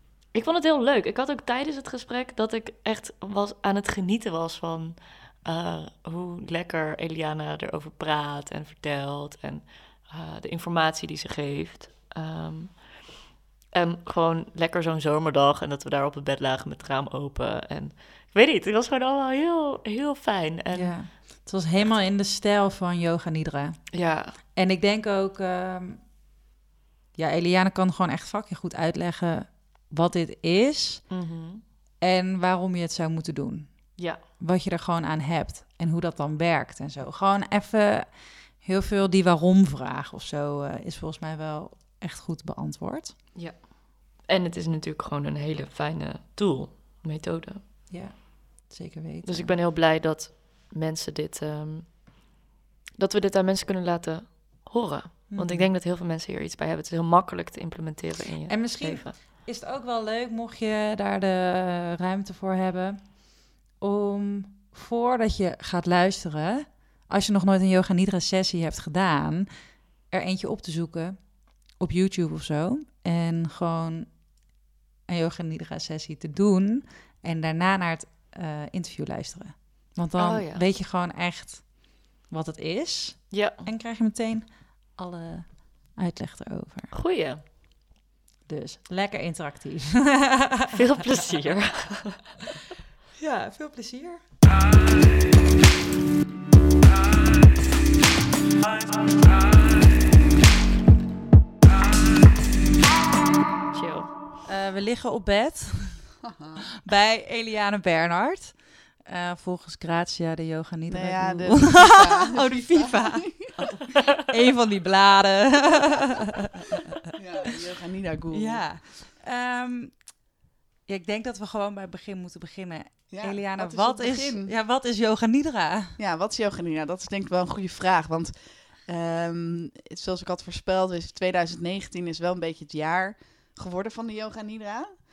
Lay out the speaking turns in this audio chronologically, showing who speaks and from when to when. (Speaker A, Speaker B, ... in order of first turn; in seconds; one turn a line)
Speaker A: 0.3-13.0
Speaker A: 13.7-21.0
Speaker B: 20.7-26.0
Speaker A: 23.9-24.4
Speaker B: 27.2-31.1
Speaker A: 31.1-31.6
Speaker B: 32.0-43.2
Speaker A: 34.0-34.2
Speaker A: 43.4-47.6
Speaker B: 47.9-49.6
Speaker A: 49.2-52.1
Speaker A: 53.0-59.2
Speaker B: 55.3-55.7
Speaker B: 58.5-63.2
Speaker B: 63.8-69.5
Speaker B: 70.1-74.2
Speaker B: 75.1-86.9
Speaker A: 80.2-80.6
Speaker A: 83.3-83.7
Speaker A: 86.9-87.4
Speaker B: 88.5-91.3
Speaker A: 90.7-92.3
Speaker B: 93.2-94.2
Speaker A: 103.7-104.1
Speaker B: 104.5-106.1
Speaker C: 106.2-106.6
Speaker B: 106.8-113.5
Speaker C: 110.9-113.8
Speaker B: 114.2-117.1
Speaker C: 117.1-118.7
Speaker B: 118.3-120.1
Speaker B: 120.9-126.0
Speaker C: 123.1-124.5
Speaker C: 126.0-128.3
Speaker C: 128.9-134.9